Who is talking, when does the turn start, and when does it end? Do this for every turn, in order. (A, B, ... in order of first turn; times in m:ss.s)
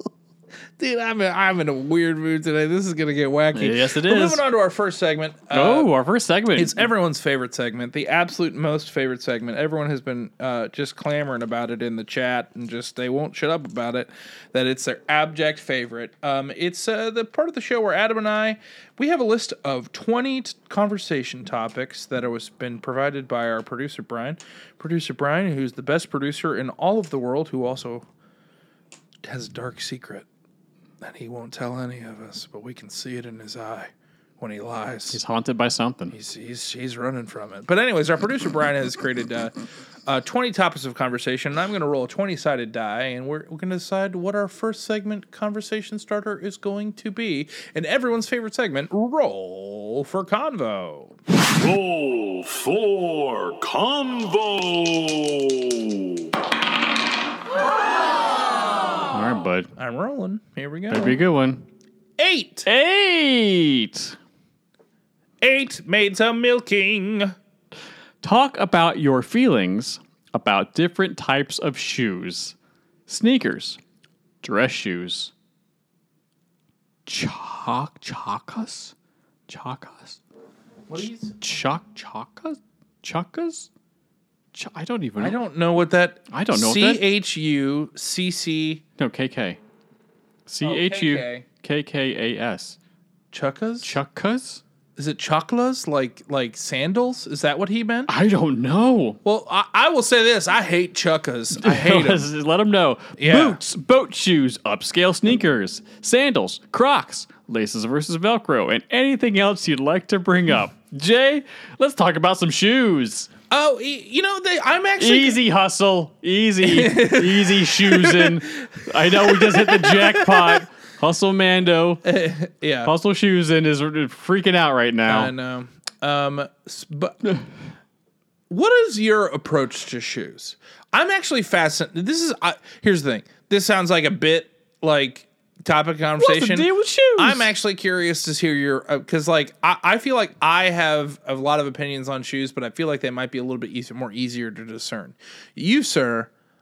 0:00.8-0:05.9 A
0:03.5-0:04.4 B
0:05.5-0:06.9 B
0:06.5-0:28.0 A
0:29.2-0:30.2 A
0:31.0-0:35.2 A
0:35.1-0:36.2 B
0:36.1-0:39.5 A
0:40.0-0:51.1 A
0:51.6-0:56.2 C
0:59.1-0:59.7 B
0:59.8-1:01.2 A
1:00.9-1:01.6 B
1:02.2-1:02.7 A
1:02.6-1:04.2 B
1:05.4-1:07.3 A
1:08.2-1:12.5 B
1:13.1-1:13.8 B
1:14.4-1:15.3 B
1:17.1-1:18.9 B
1:19.5-1:20.2 B
1:20.9-1:21.4 A
1:21.4-1:23.7 B
1:24.5-1:25.4 B
1:25.2-1:28.8 A
1:26.3-1:27.0 B
1:29.0-1:29.6 B
1:30.5-1:32.8 B
1:30.6-1:31.4 A
1:33.3-1:33.9 A
1:33.8-1:34.6 B
1:35.0-1:38.1 A
1:38.1-1:39.2 B
1:39.2-1:42.2 A
1:41.6-1:53.3 B
1:43.2-1:43.6 A
1:53.5-1:55.4 A
1:55.0-2:02.0 B
1:56.6-2:00.6 A
2:02.0-2:02.9 A
2:02.8-2:05.3 B
2:05.1-2:07.2 A
2:08.5-2:26.3 A
2:16.2-2:17.5 B